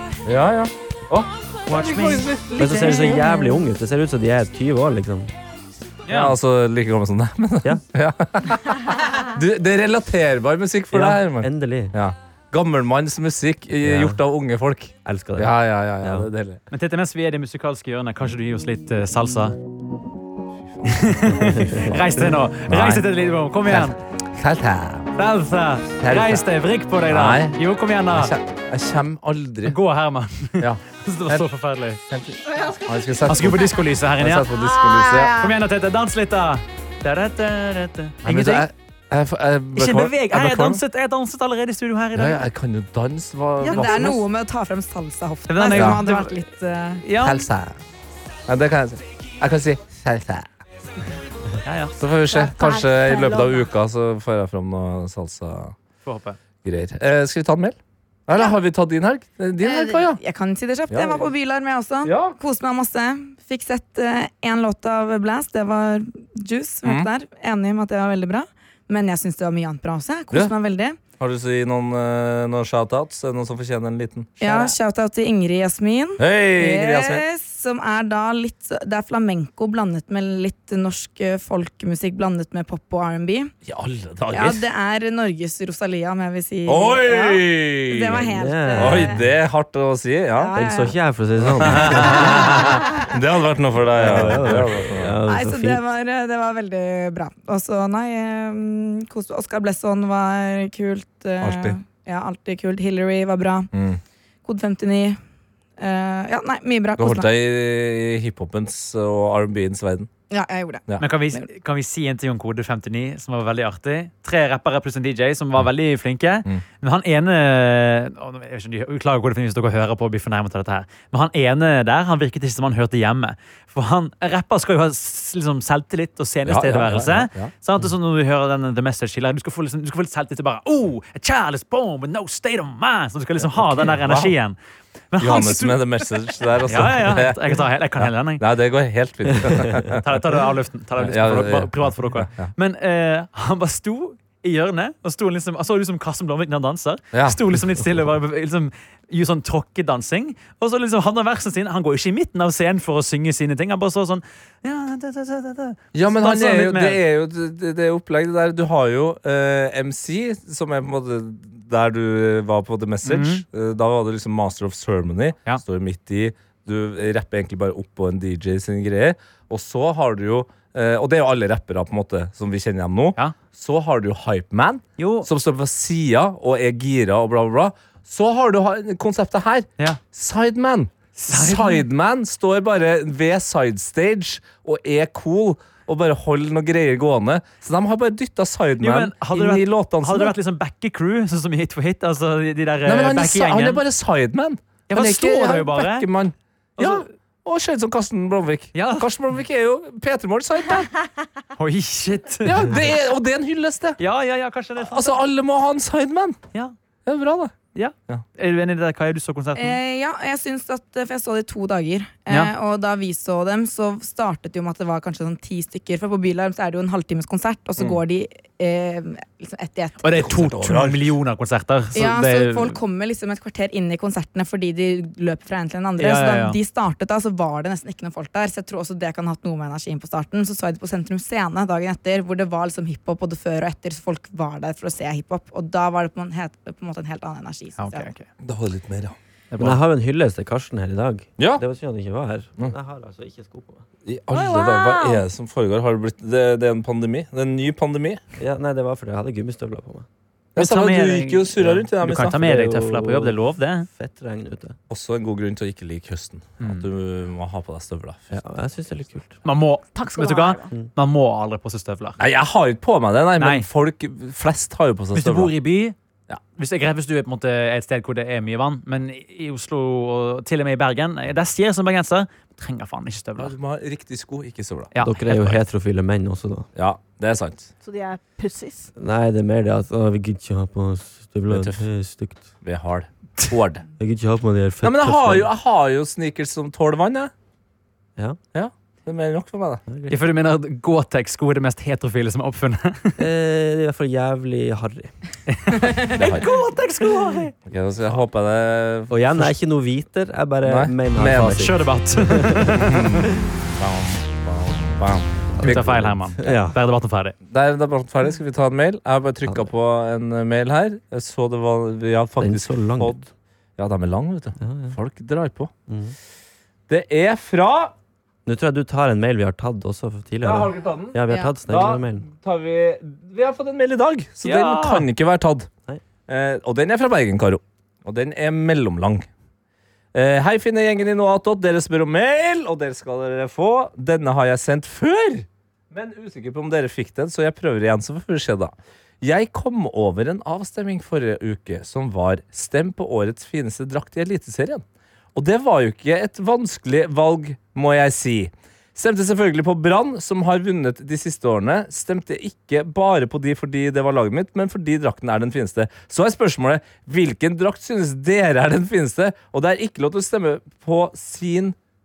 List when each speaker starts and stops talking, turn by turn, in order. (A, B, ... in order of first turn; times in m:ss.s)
0:00.2-0:03.2 A
0:01.7-0:02.3 B
0:01.7-0:03.6 C
0:02.6-0:05.3 D
0:06.0-0:06.4 B
0:06.1-0:16.6 A
0:10.9-0:11.9 D
0:13.8-0:14.2 D
0:15.0-0:16.3 D
0:16.7-0:19.6 B
0:20.6-0:23.0 A
0:20.8-0:24.0 B
0:21.5-0:21.8 D
0:23.7-0:25.1 A
0:25.2-0:28.3 B
0:26.0-0:26.4 A
0:27.1-0:27.6 A
0:28.1-0:29.8 A
0:29.6-0:32.0 B
0:30.6-0:31.4 A
0:32.1-0:35.4 A
0:32.5-0:33.2 E
0:33.3-0:34.5 B
0:34.5-0:35.6 E
0:35.4-0:38.7 B
0:38.2-0:40.8 A
0:39.7-0:42.4 B
0:42.2-0:44.2 A
0:43.6-0:44.2 B
0:43.6-0:47.0 C
0:45.5-0:46.4 B
0:45.7-0:46.0 A
0:47.0-0:47.5 B
0:47.2-0:47.8 A
0:48.5-0:50.5 A
0:51.6-0:51.9 B
0:52.0-0:55.7 A
0:52.3-0:53.6 E
0:56.0-0:56.4 B
0:56.6-1:00.2 A
0:59.6-1:11.0 C
1:00.9-1:01.3 A
1:02.0-1:02.4 A
1:06.8-1:07.1 A
1:11.2-1:14.7 A
1:14.4-1:23.5 C
1:16.2-1:17.2 A
1:23.6-1:24.6 A
1:24.3-1:29.3 C
1:26.7-1:30.5 A
1:28.3-1:29.2 D
1:30.4-1:31.0 C
1:30.5-1:32.6 D
1:31.5-1:35.2 A
1:31.8-1:33.1 C
1:33.9-1:35.8 D
1:35.3-1:43.7 C
1:41.4-1:41.8 A
1:43.7-1:44.0 A
1:44.4-1:45.2 C
1:45.8-1:47.3 C
1:47.0-1:50.1 A
1:50.3-1:51.4 C
1:51.0-2:14.6 B
2:06.4-2:07.5 A
2:13.5-2:14.3 A
2:15.1-2:16.1 B
2:15.2-2:20.1 A
2:16.6-2:18.4 B
2:19.5-2:19.8 D
2:19.9-2:37.0 B
2:21.0-2:22.5 A
2:27.1-2:27.9 A
2:35.9-3:10.3 A
2:43.0-2:43.4 B
2:55.0-2:55.3 B
3:01.2-3:01.8 B
3:08.8-3:13.8 B
3:12.8-3:20.9 A
3:14.9-3:16.1 B
3:16.8-3:17.1 B
3:18.7-3:19.1 B
3:21.6-3:22.8 B
3:22.4-3:24.0 A
3:24.0-3:25.2 B
3:24.8-3:26.4 A
3:27.0-3:27.5 A
3:27.7-3:29.8 B
3:29.6-3:40.1 C
3:40.0-3:42.7 B
3:40.3-3:41.1 A
3:41.9-3:58.1 C
3:46.0-3:46.6 B
3:57.8-3:58.3 B
3:58.4-3:59.2 A
3:59.5-3:59.8 B
3:59.6-4:03.8 D
4:01.4-4:01.6 A
4:04.0-4:08.2 A
4:04.3-4:05.2 E
4:08.4-4:10.1 D
4:10.6-4:12.3 A
4:10.6-4:13.9 B
4:12.2-4:14.8 D
4:14.9-4:18.4 A
4:16.6-4:16.8 B
4:18.3-4:19.4 D
4:19.4-4:22.2 B
4:19.9-4:20.7 E
4:22.2-4:25.5 A
4:23.4-4:23.7 B
4:25.1-4:26.0 B
4:26.6-4:33.5 B
4:33.4-4:34.9 A
4:34.9-4:35.6 B
4:35.0-4:36.7 D
4:36.7-4:37.7 A
4:37.8-4:38.9 E
4:39.0-4:42.5 D
4:41.5-4:41.8 A
4:42.6-4:43.8 A
4:44.0-4:45.5 D
4:44.8-4:47.3 A
4:48.5-4:49.8 A
4:49.9-4:50.2 D
4:50.1-4:53.2 B
4:53.2-4:55.1 D
4:55.5-4:57.5 B
4:56.1-4:56.5 A
4:57.6-4:59.5 A
4:59.1-5:03.3 D
5:00.6-5:01.6 A
5:01.4-5:02.8 B
5:02.8-5:06.1 A
5:05.6-5:06.8 D
5:05.6-5:07.4 B
5:07.5-5:13.2 A
5:12.4-5:13.3 D
5:13.8-5:15.7 A
5:14.6-5:15.0 D
5:15.9-5:16.2 D
5:16.9-5:17.9 A
5:18.4-5:22.3 D
5:20.4-5:25.7 A
5:24.4-5:25.1 B
5:26.3-5:29.3 A
5:30.1-6:01.8 A